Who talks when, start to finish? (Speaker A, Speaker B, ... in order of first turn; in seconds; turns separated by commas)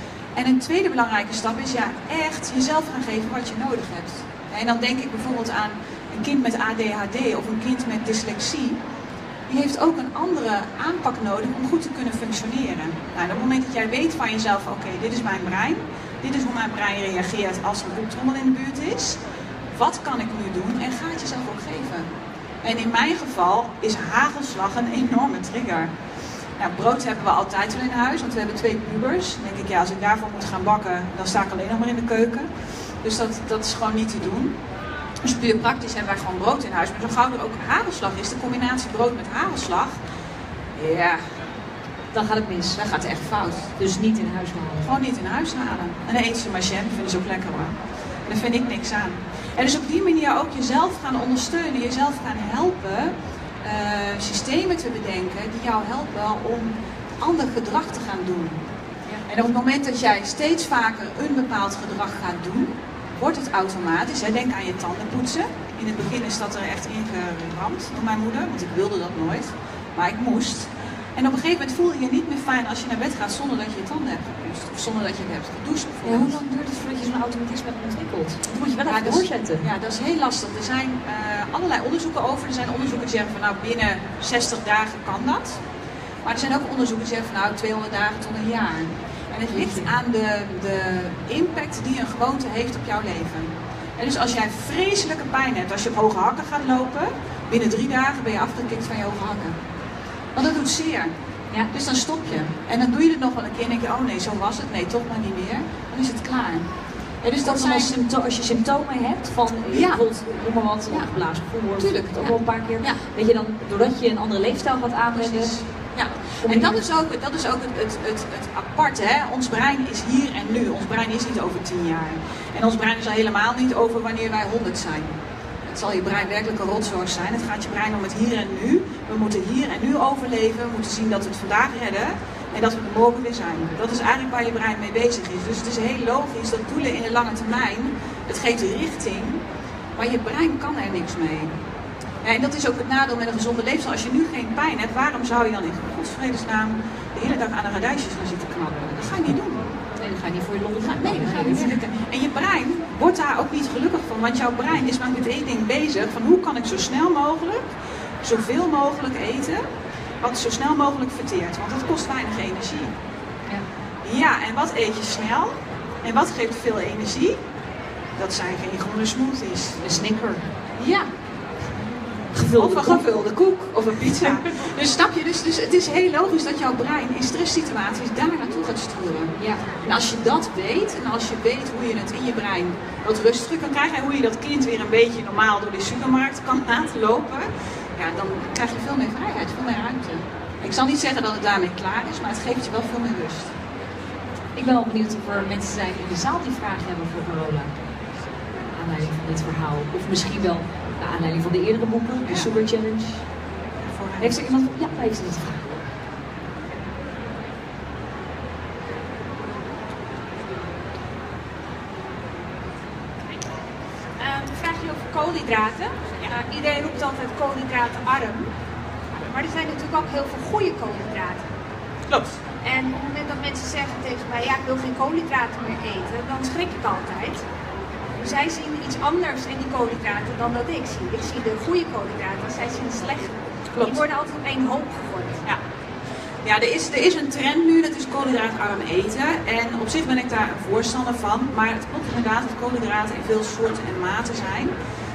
Speaker A: 0.3-8.8, Speaker A: 9.5-22.1, Speaker A: 22.6-25.9, Speaker A: 26.6-32.5, Speaker A: 33.0-34.5, Speaker A: 35.2-40.0, Speaker A: 40.7-41.4, Speaker B: 42.1-42.9, Speaker A: 42.7-43.7, Speaker B: 43.8-45.0, Speaker A: 44.8-58.6, Speaker A: 59.3-76.4, Speaker B: 76.0-79.6, Speaker A: 78.8-85.6, Speaker A: 86.2-99.6, Speaker B: 89.5-89.9, Speaker A: 100.3-101.1, Speaker A: 101.7-106.7, Speaker A: 107.2-108.0, Speaker B: 107.4-115.5, Speaker A: 109.7-110.0, Speaker A: 110.9-111.1, Speaker A: 111.8-113.0, Speaker A: 115.1-139.4, Speaker B: 116.4-116.8, Speaker A: 139.9-141.5, Speaker A: 142.2-149.7, Speaker B: 150.0-151.8, Speaker A: 150.8-159.6, Speaker A: 160.2-162.9, Speaker A: 164.0-167.4, Speaker A: 168.2-169.8, Speaker B: 169.8-170.4, Speaker A: 170.8-171.1, Speaker B: 172.3-173.1, Speaker A: 172.6-193.5, Speaker B: 179.3-179.6, Speaker B: 194.5-197.7, Speaker B: 198.7-203.2, Speaker A: 202.2-202.5, Speaker A: 203.8-204.4, Speaker B: 204.2-205.7, Speaker C: 214.2-218.5, Speaker C: 219.3-221.4, Speaker A: 222.1-222.4, Speaker C: 222.6-227.4, Speaker C: 228.2-235.4, Speaker A: 233.7-234.0, Speaker A: 236.4-244.7